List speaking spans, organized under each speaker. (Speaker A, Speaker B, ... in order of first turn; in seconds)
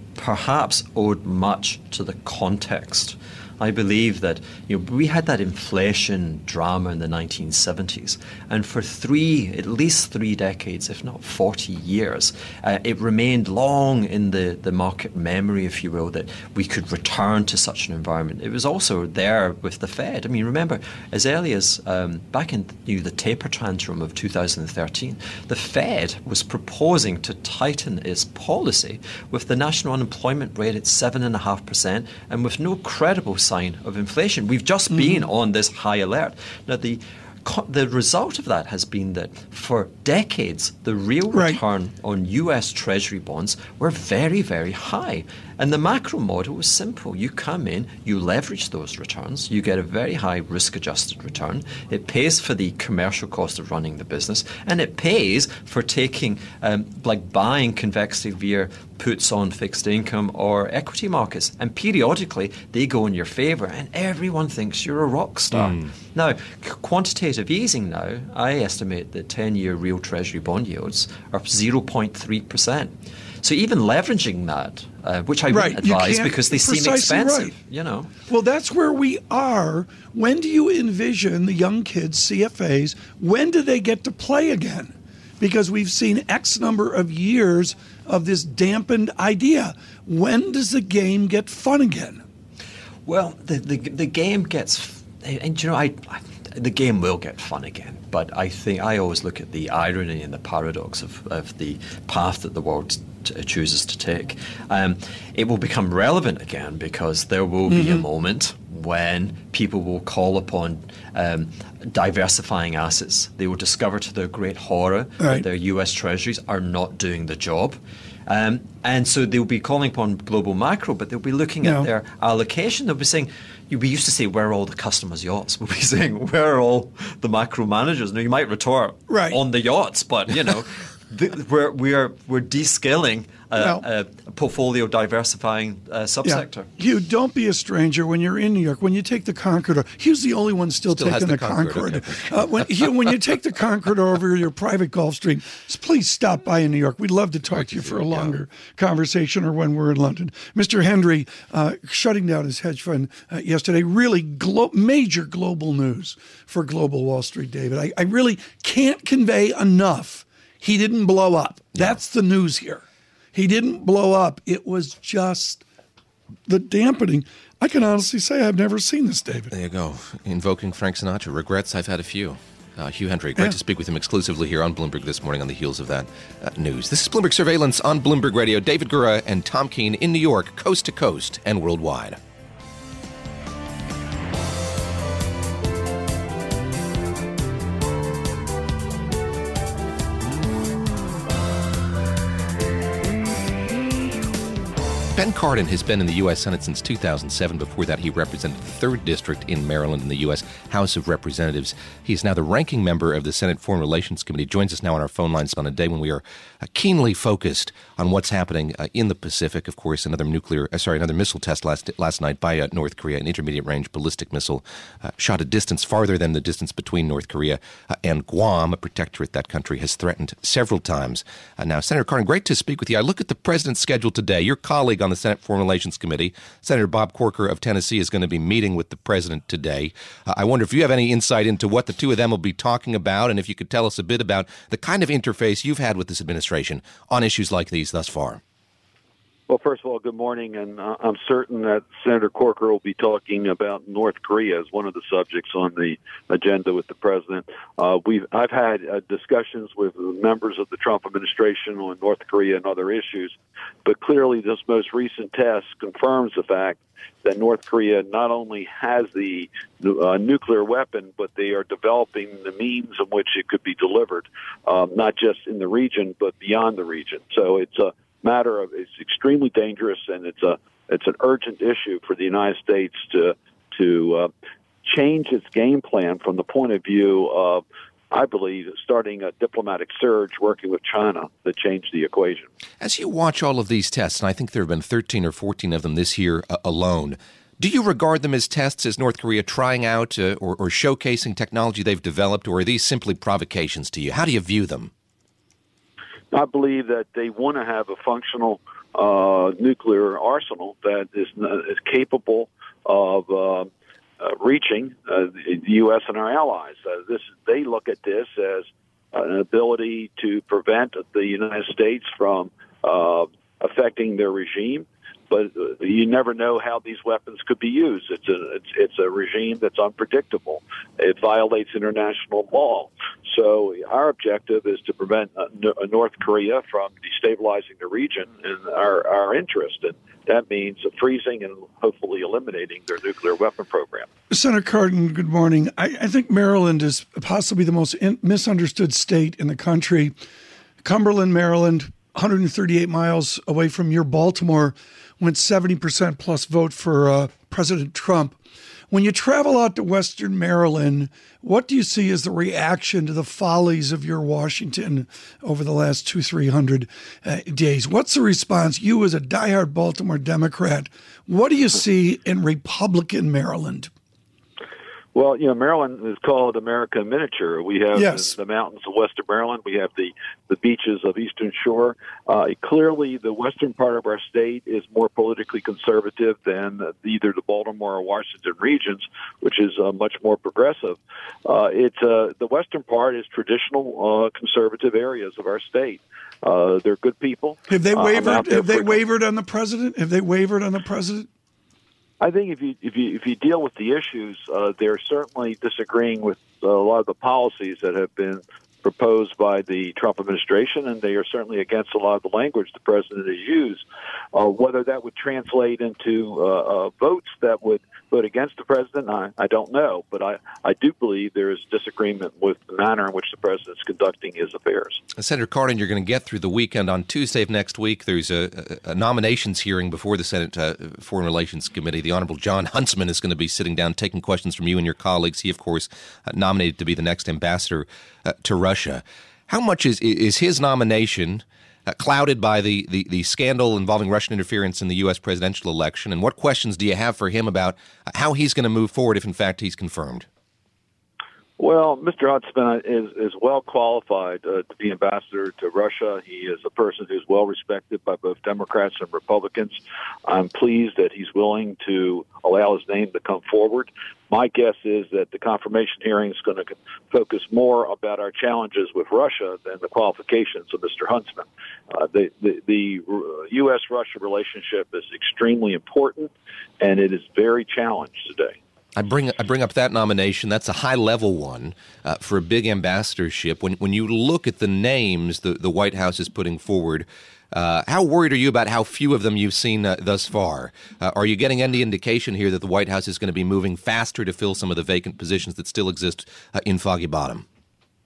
Speaker A: 0.1-78.1, 93.0-136.7
Speaker B: 34.9-35.3, 41.3-41.6, 75.5-77.6, 78.3-92.2, 107.7-108.1, 115.2-115.5, 121.6-121.9, 129.1-129.4, 133.6-133.8, 136.2-165.7, 166.5-169.5, 334.3-340.1, 340.8-348.4, 348.9-363.9, 367.9-368.4, 387.7-391.3
Speaker C: 65.5-65.9, 140.9-142.9, 147.5-148.3, 161.7-162.0, 169.5-182.2, 195.2-238.4, 282.8-294.9, 415.2-440.3, 469.0-487.4
Speaker D: 239.5-274.3, 274.8-282.5, 296.3-334.1, 365.1-389.0, 392.2-403.8, 404.3-415.0, 441.6-468.6